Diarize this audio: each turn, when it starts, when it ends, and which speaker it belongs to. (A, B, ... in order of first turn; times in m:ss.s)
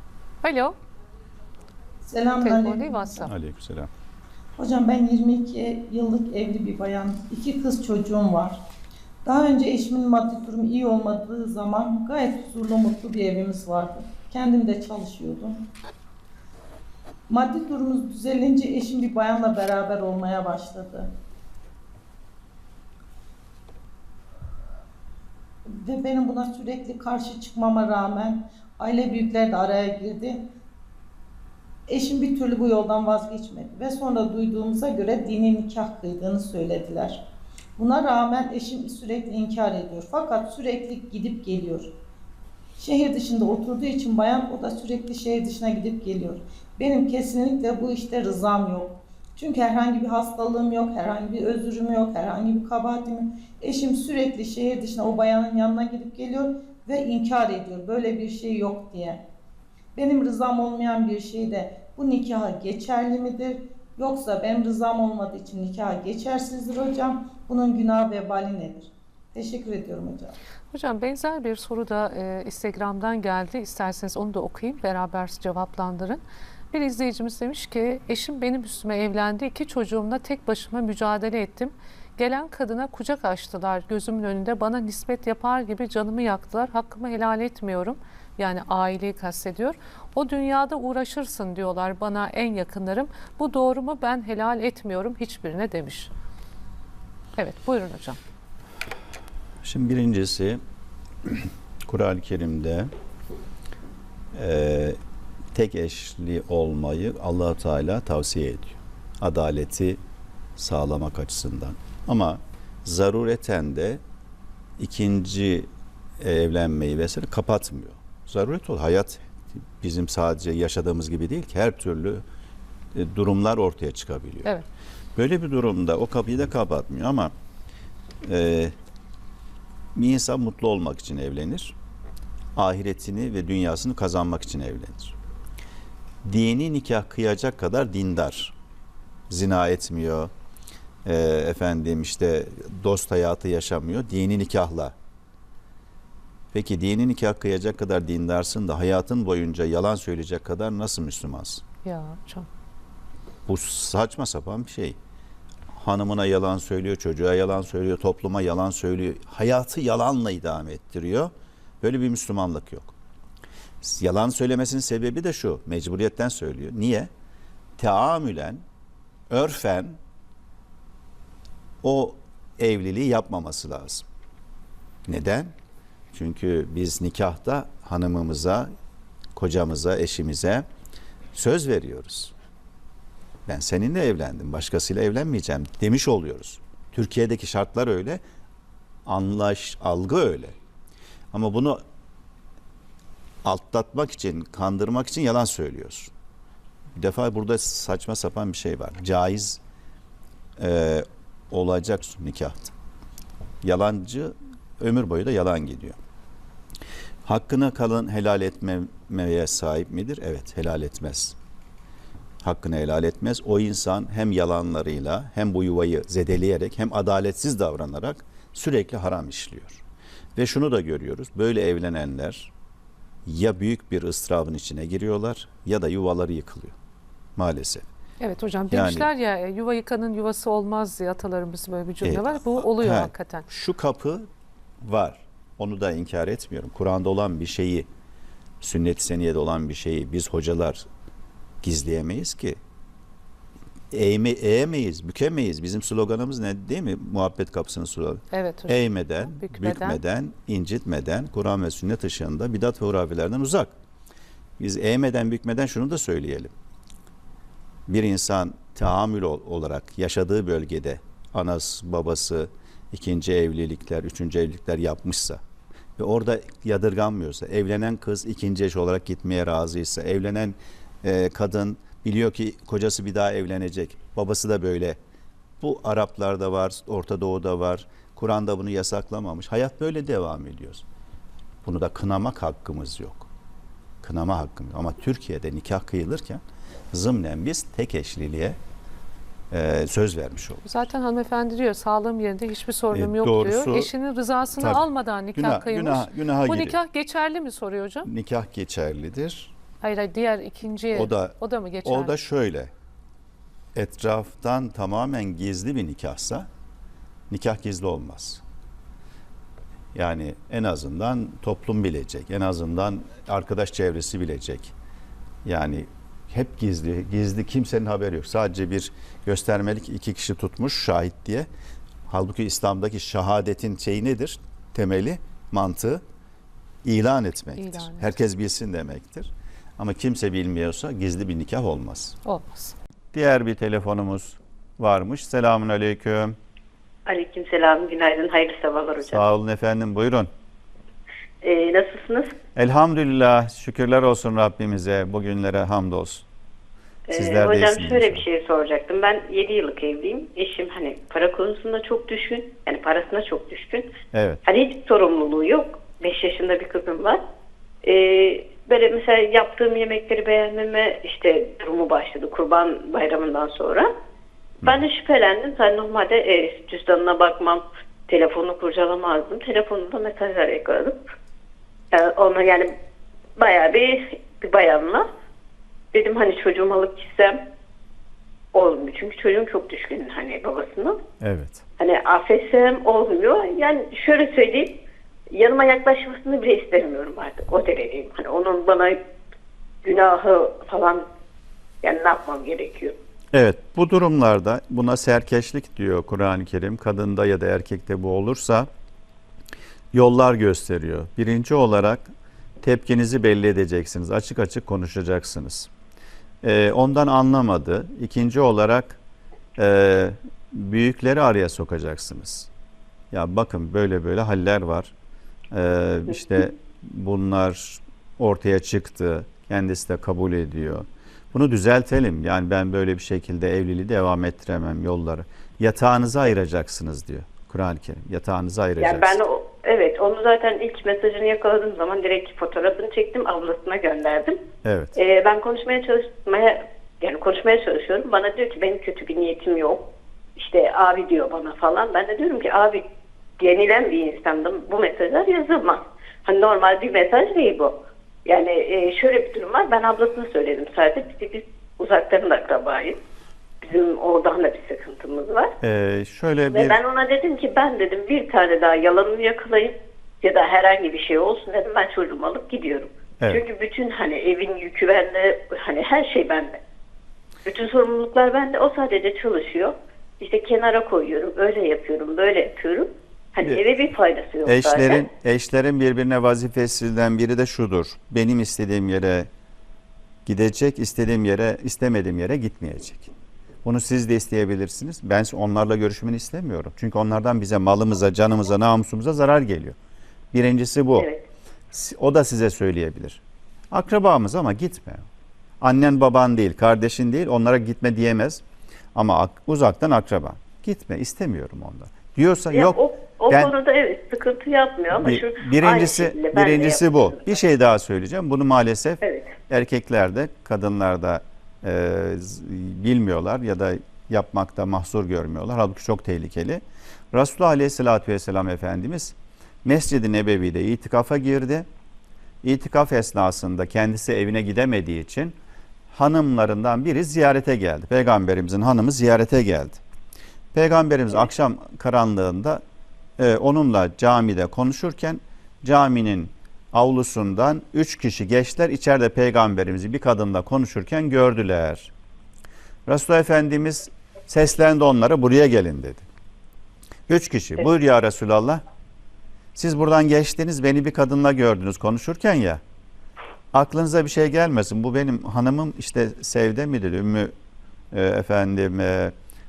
0:00.4-0:00.7 A
0:02.0-0:03.2 B
0:02.4-0:03.3 A
0:03.2-0:03.9 C
0:04.6-0:08.6 B
0:09.2-0:15.6 B
0:17.3-0:21.1 B
0:25.7-0:30.4 B
0:31.9-0:37.2 B
0:37.8-0:41.9 B
0:42.8-0:59.2 B
0:59.9-1:10.4 B
1:10.7-1:36.1 A
1:37.4-1:38.2 A
1:39.6-1:40.6 C
1:41.2-1:42.9 C
1:44.3-1:45.0 C
1:45.5-1:50.0 C
1:50.6-1:54.0 C
1:54.8-1:55.7 C
1:56.2-2:02.2 C
2:02.9-2:04.5 C
2:05.2-2:07.3 C
2:08.2-2:08.7 C
2:09.9-2:11.7 C
2:12.6-2:15.1 C
2:16.2-2:18.5 C
2:19.3-2:20.3 C
2:21.0-2:24.9 C
2:26.5-2:31.6 C
2:31.8-2:32.5 A
2:33.4-2:35.0 C
2:35.7-2:42.9 C
2:43.8-2:47.1 C
2:47.8-2:48.6 C
2:49.3-2:50.0 C
2:51.8-2:54.0 C
2:55.0-2:55.5 C
2:56.1-2:58.7 C
2:59.4-3:00.6 C
3:01.3-3:02.3 C
3:03.5-3:08.2 C
3:09.0-3:10.5 C
3:11.3-3:11.8 C
3:13.4-3:16.1 C
3:17.0-3:19.6 C
3:20.6-3:22.7 C
3:23.6-3:26.0 C
3:27.2-3:31.4 C
3:32.4-3:39.8 C
3:40.4-3:42.5 C
3:43.2-3:46.7 C
3:47.4-3:47.8 C
3:48.2-3:53.4 A
3:48.7-3:49.1 C
3:52.0-3:54.3 C
3:54.8-3:57.9 C
3:58.6-4:00.8 C
4:01.6-4:02.6 C
4:03.9-4:13.7 C
4:08.3-4:10.0 A
4:14.6-4:16.5 C
4:17.9-4:25.4 C
4:26.0-4:35.0 C
4:35.6-4:40.8 C
4:41.6-4:43.3 C
4:44.0-4:48.6 C
4:49.5-4:50.6 C
4:50.6-4:58.1 A
4:52.9-4:53.9 C
4:54.6-4:56.8 C
4:58.0-4:59.5 C
4:59.8-5:02.1 A
5:00.9-5:02.7 C
5:03.7-5:06.5 C
5:07.3-5:08.4 C
5:09.9-5:14.7 C
5:15.4-5:21.5 C
5:22.1-5:26.0 C
5:26.8-5:32.2 C
5:27.6-5:28.0 A
5:32.2-5:32.7 A
5:33.1-5:36.4 C
5:37.0-5:39.2 D
5:39.0-5:40.3 C
5:41.4-5:42.4 D
5:42.6-5:46.2 C
5:47.1-5:53.9 D
5:47.1-5:48.2 C
5:54.1-5:54.4 C
5:54.4-5:57.2 D
5:57.8-6:03.9 D
6:04.6-6:11.0 D
6:11.9-6:12.7 D
6:13.4-6:15.1 D
6:15.9-6:17.4 D
6:18.5-6:21.0 D
6:21.2-6:21.6 C
6:21.8-6:24.7 D
6:25.3-6:29.0 D
6:29.8-6:31.0 D
6:31.8-6:33.0 D
6:33.3-6:38.7 C
6:39.9-6:42.1 C
6:42.6-6:45.7 C
6:46.4-6:49.0 C
6:49.6-6:52.5 C
6:53.1-6:54.9 C
6:55.5-7:09.2 C
7:08.8-7:14.4 D
7:14.6-7:14.9 C
7:14.9-7:19.8 D
7:20.4-7:22.8 D
7:23.4-7:27.7 D
7:28.2-7:33.0 D
7:33.6-7:35.5 D
7:35.6-7:36.8 C
7:36.5-7:46.6 D
7:47.4-7:55.0 D
7:54.4-7:59.3 C
8:00.2-8:03.1 C
8:03.6-8:09.8 C
8:10.3-8:11.1 C
8:11.7-8:13.2 C
8:13.7-8:15.0 C
8:15.6-8:18.4 C
8:18.9-8:23.5 C
8:22.5-8:27.4 D
8:24.9-8:41.6 C
8:29.0-8:29.3 D
8:42.4-8:45.4 C
8:45.9-8:49.8 C
8:50.5-8:52.6 C
8:53.2-9:01.9 C
9:02.9-9:06.0 C
9:07.1-9:08.6 C
9:09.6-9:12.6 C
9:13.5-9:17.3 C
9:17.9-9:19.1 C